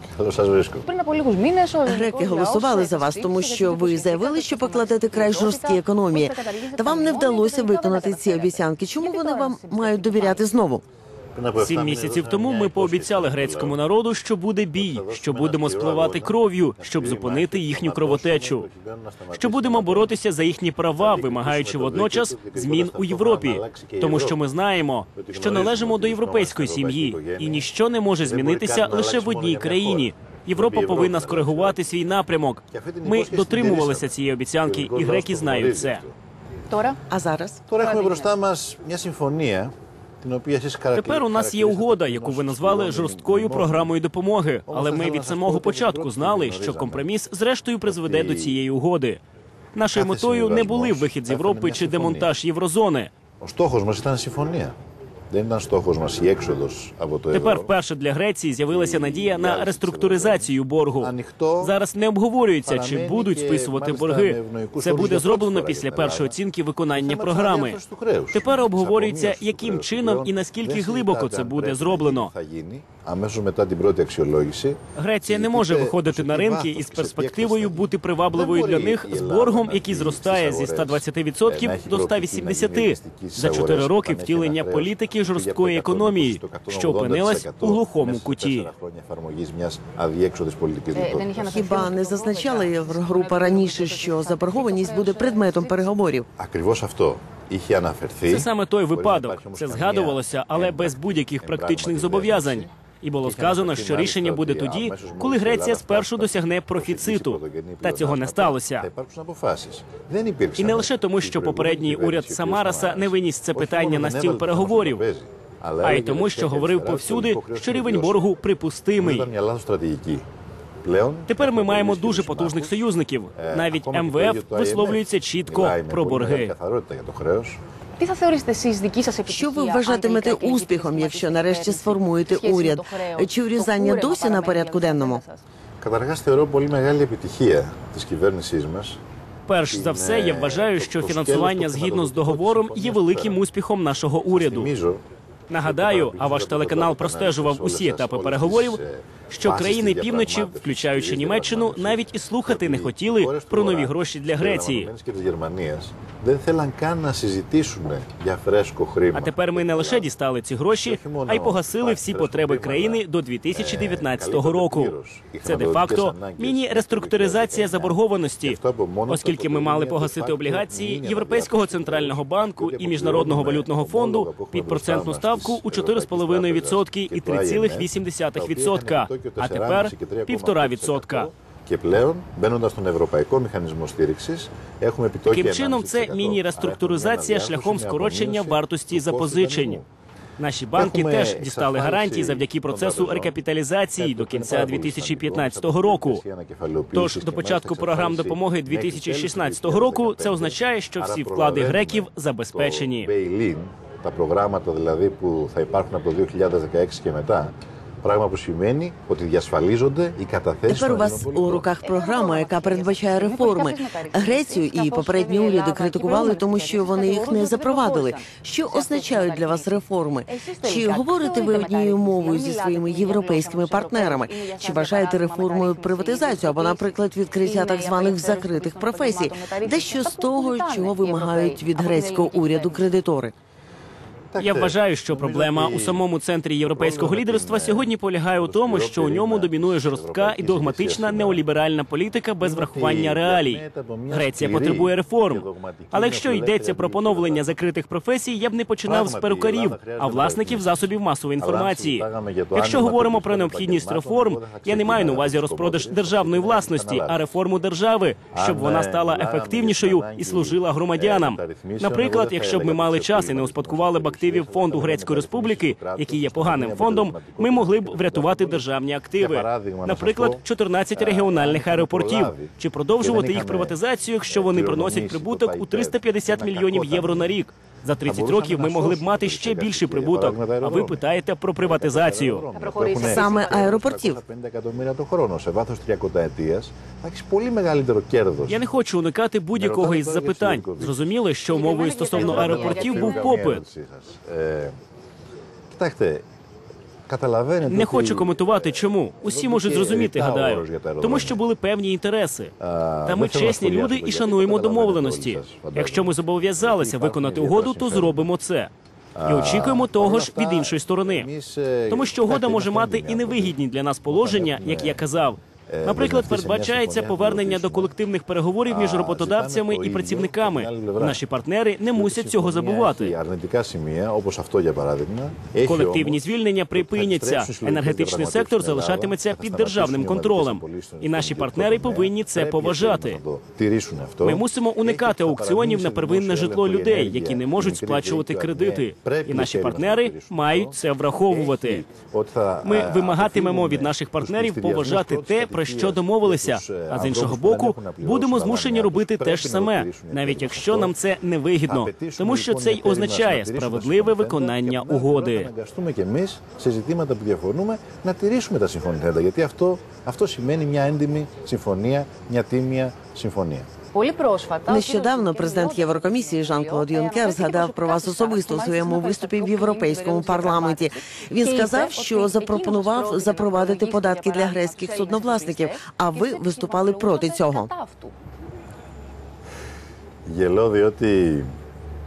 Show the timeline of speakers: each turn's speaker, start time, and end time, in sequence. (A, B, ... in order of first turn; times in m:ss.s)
0:00.2-0:00.9 A
0:00.8-0:10.4 B
0:01.8-0:10.8 C
0:11.3-0:13.8 A
0:11.6-0:18.7 D
0:14.7-0:20.2 A
0:19.3-0:36.0 D
0:21.0-0:24.4 A
0:25.2-0:27.7 A
0:28.2-0:31.8 A
0:32.7-0:34.1 A
0:34.6-0:36.1 A
0:36.7-0:37.0 B
0:37.1-0:37.6 C
0:37.7-0:44.0 A
0:37.8-0:38.3 B
0:40.9-0:49.2 D
0:44.7-0:47.0 A
0:47.9-0:48.6 A
0:49.8-0:53.1 D
0:49.9-0:52.3 A
0:53.4-0:54.8 A
0:55.3-0:57.7 A
0:57.3-1:07.8 D
0:58.7-1:01.8 A
1:02.6-1:06.4 A
1:06.9-1:31.8 A
1:08.3-1:12.3 D
1:15.0-1:28.7 D
1:30.9-1:35.8 B
1:31.5-1:36.3 C
1:36.4-1:42.7 A
1:38.2-1:48.9 D
1:43.2-1:58.2 A
1:50.6-1:55.0 D
1:55.8-1:59.3 D
1:59.0-2:00.2 A
2:00.8-2:02.8 A
2:01.3-2:06.5 D
2:03.3-2:07.6 A
2:08.0-2:15.4 B
2:09.2-2:15.2 C
2:15.8-2:19.0 A
2:19.5-2:24.7 D
2:19.7-2:23.4 A
2:24.3-2:25.0 A
2:25.5-2:34.9 D
2:25.6-2:40.1 A
2:39.1-3:01.3 D
2:40.8-3:09.8 A
3:05.3-3:09.8 D
3:10.4-3:16.2 D
3:10.8-3:13.4 A
3:13.9-3:31.7 A
3:16.9-3:23.1 D
3:30.7-3:53.3 C
3:31.8-3:52.9 B
3:54.3-3:56.0 A
3:54.4-4:42.4 D
3:56.7-4:01.4 A
4:02.4-4:07.6 A
4:08.8-4:10.8 A
4:11.4-4:17.2 A
4:18.3-4:30.4 A
4:30.9-4:37.4 A
4:38.0-4:41.0 A
4:41.6-4:48.6 A
4:42.5-4:43.8 B
4:42.9-4:44.2 C
4:48.4-4:53.6 D
4:49.5-4:51.0 A
4:51.4-4:53.4 B
4:52.1-4:54.7 A
4:55.7-4:56.2 A
4:57.1-5:01.4 A
4:57.6-5:02.5 D
5:02.6-5:08.3 A
5:03.0-5:08.7 D
5:09.1-5:15.0 A
5:09.2-5:11.3 D
5:11.9-5:23.2 D
5:15.7-5:17.9 A
5:18.7-5:21.2 A
5:21.9-5:40.8 A
5:25.6-5:33.2 D
5:34.2-5:41.8 D
5:41.3-5:50.9 A
5:42.6-5:55.5 D
5:51.6-6:03.7 A
6:03.9-6:18.1 B
6:04.7-6:17.7 C
6:20.2-6:21.5 A